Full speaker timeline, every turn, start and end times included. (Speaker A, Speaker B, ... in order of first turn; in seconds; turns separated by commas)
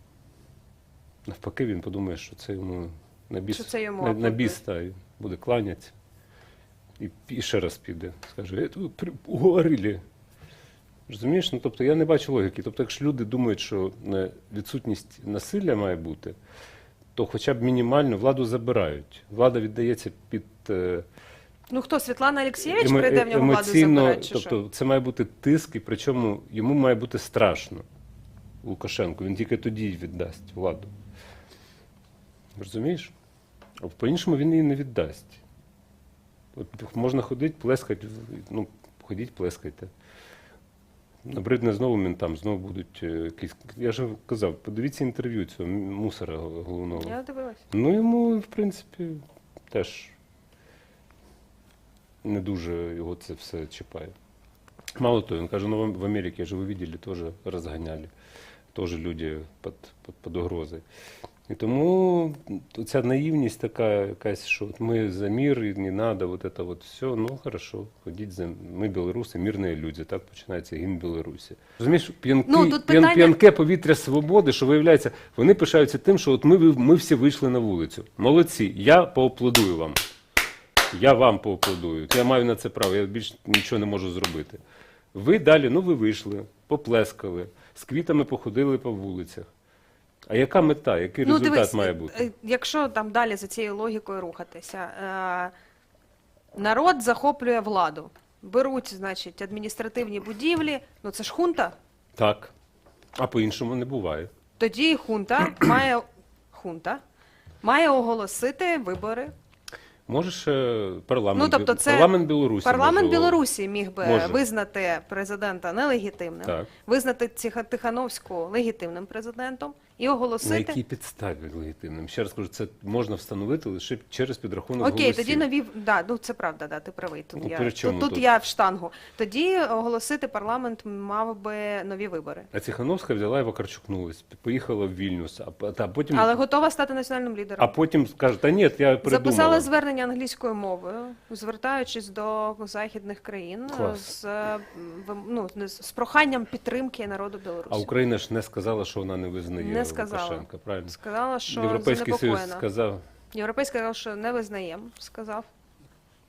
Speaker A: 1.3-6.0, Speaker B: 3.5-4.6, Speaker A: 7.0-10.0, Speaker A: 11.1-16.4, Speaker A: 17.2-21.1, Speaker B: 21.7-24.6, Speaker A: 22.7-27.8, Speaker A: 28.6-30.9, Speaker A: 32.6-33.1, Speaker A: 33.8-35.4, Speaker A: 36.5-39.9, Speaker A: 41.2-47.2, Speaker B: 47.0-47.6, Speaker A: 47.7-50.1, Speaker A: 52.2-54.1, Speaker A: 55.0-58.1, Speaker A: 58.7-60.8, Speaker A: 61.5-80.0, Speaker B: 72.5-73.4, Speaker A: 80.9-84.6, Speaker A: 85.1-89.5, Speaker A: 90.3-92.3, Speaker B: 91.2-95.5, Speaker B: 96.5-101.8, Speaker A: 102.2-102.5, Speaker A: 103.2-104.3, Speaker B: 104.6-107.0, Speaker B: 107.6-109.3, Speaker A: 110.1-113.4, Speaker B: 111.3-112.1, Speaker B: 112.6-120.8, Speaker A: 114.0-114.4, Speaker A: 116.5-116.7, Speaker A: 120.4-125.5, Speaker B: 124.8-132.5, Speaker A: 127.4-128.2, Speaker A: 132.5-136.3, Speaker B: 136.1-137.7, Speaker A: 137.6-139.7, Speaker B: 139.0-147.9, Speaker A: 143.7-144.1, Speaker A: 147.7-151.0, Speaker B: 149.6-152.6, Speaker A: 151.5-153.0, Speaker B: 153.3-155.5